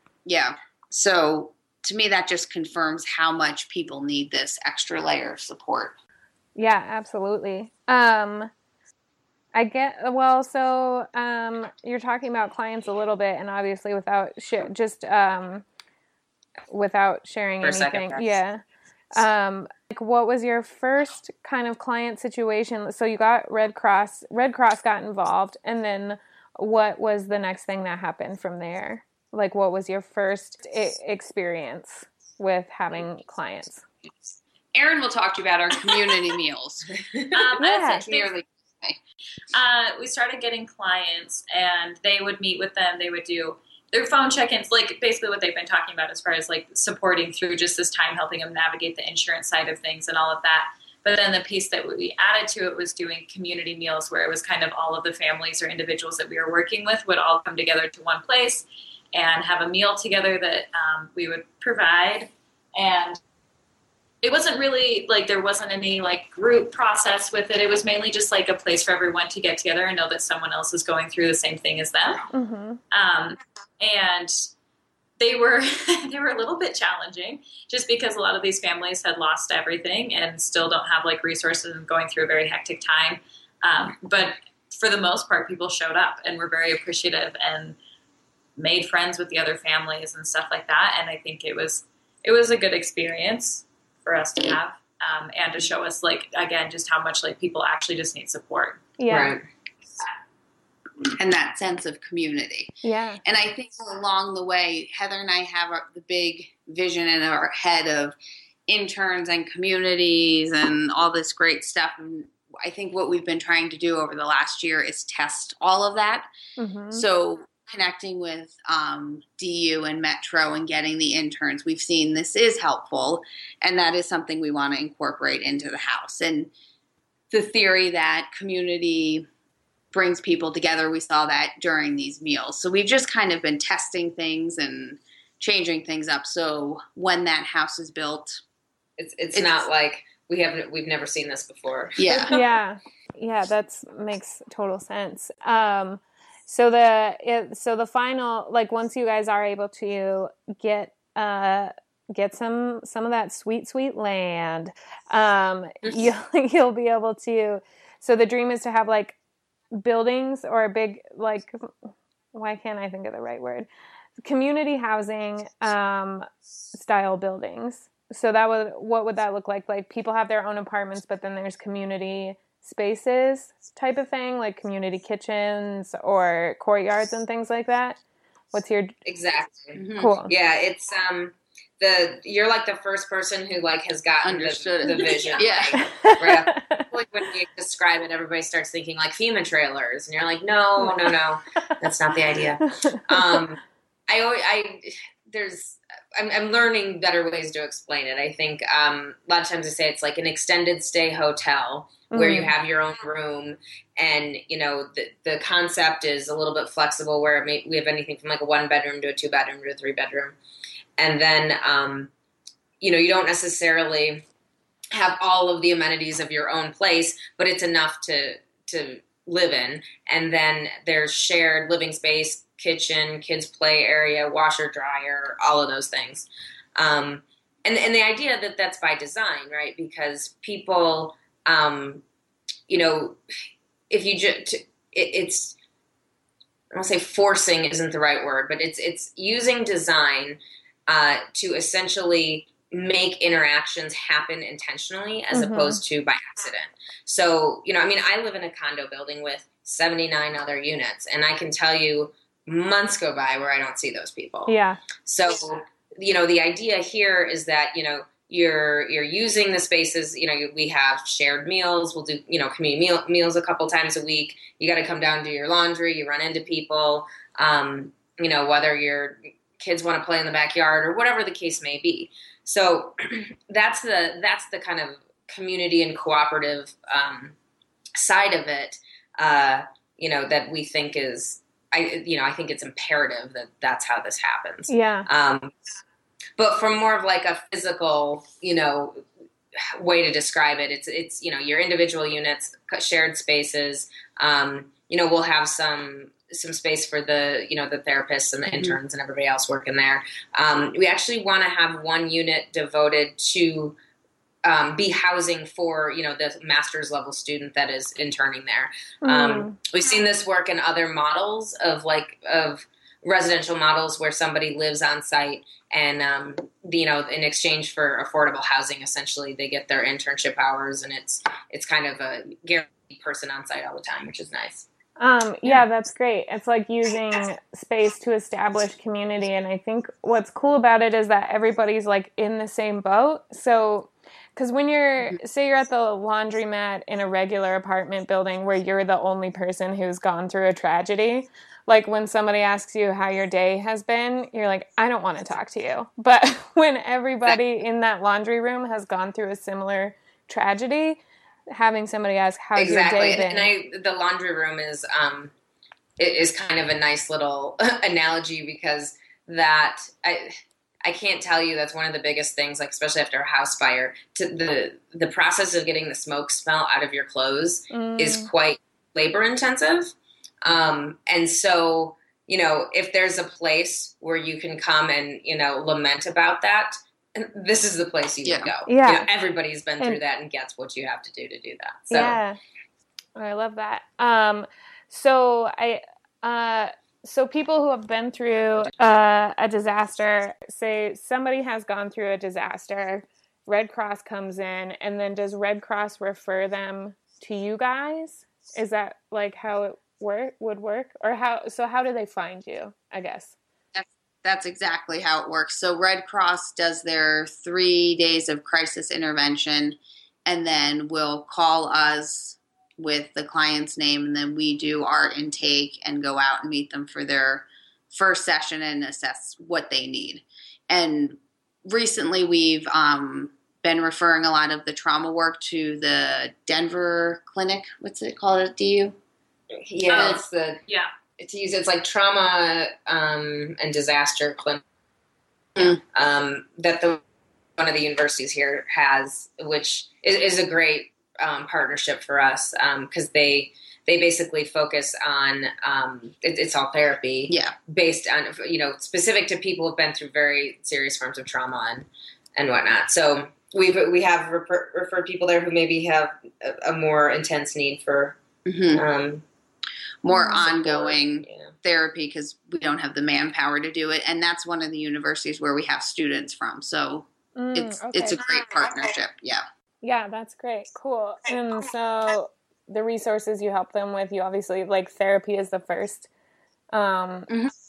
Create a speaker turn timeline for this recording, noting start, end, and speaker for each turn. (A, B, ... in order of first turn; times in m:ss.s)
0:00.2-0:05.9 A
0:06.6-0:08.5 B
0:09.5-0:15.6 B
0:16.7-0:18.6 B
0:17.6-0:18.4 C
0:19.1-0:33.8 B
0:34.7-0:39.0 A
0:37.3-0:38.3 D
0:37.6-0:38.0 B
0:39.5-1:03.2 D
1:04.2-1:12.2 D
1:12.3-1:12.8 B
1:12.9-1:14.5 D
1:15.2-1:27.8 D
1:28.6-1:38.8 D
1:39.0-1:39.4 B
1:39.1-1:39.4 C
1:41.2-1:42.7 A
1:42.8-1:43.2 B
1:43.2-1:48.2 A
1:48.7-1:56.3 A
1:56.6-1:57.0 B
1:56.9-2:06.5 A
2:07.3-2:09.3 A
2:09.9-2:18.4 A
2:19.0-2:22.4 C
2:22.0-2:22.4 A
2:22.3-2:39.2 B
2:39.7-2:41.7 B
2:42.3-2:43.7 B
2:44.2-2:58.0 B
2:58.5-2:58.9 B
2:59.0-3:30.4 C
2:59.7-3:00.2 A
3:00.0-3:00.3 B
3:04.2-3:05.8 A
3:05.1-3:06.8 B
3:12.8-3:13.4 B
3:22.1-3:22.5 B
3:31.0-3:32.1 C
3:32.8-3:34.2 C
3:34.9-3:52.0 C
3:52.7-3:53.2 C
3:53.9-3:55.5 C
3:56.7-4:37.3 C
4:05.3-4:05.8 B
4:14.5-4:14.8 B
4:38.0-4:45.5 C
4:44.7-4:45.1 B
4:46.4-4:49.0 C
4:49.6-5:03.8 C
4:58.5-4:58.8 A
5:04.4-5:24.6 C
5:09.0-5:09.6 B
5:25.0-5:51.0 B
5:51.5-5:53.5 B
5:52.6-5:55.3 C
5:56.0-6:09.9 C
6:07.7-6:08.3 B
6:10.4-6:22.2 C
6:18.2-6:18.5 A
6:18.6-6:19.1 B
6:21.9-6:22.4 B
6:23.2-6:43.3 B
6:43.7-7:08.9 A
7:09.6-7:10.6 C
7:09.9-7:10.9 D
7:11.2-7:14.6 C
7:15.6-7:17.0 C
7:17.6-7:38.2 C
7:27.3-7:27.5 A
7:38.4-7:38.8 A
7:38.7-7:39.2 C
7:40.0-7:49.4 A
7:40.1-7:40.4 B
7:40.2-7:41.5 C
7:47.4-7:48.2 B
7:49.8-7:56.1 B
7:56.7-7:57.3 B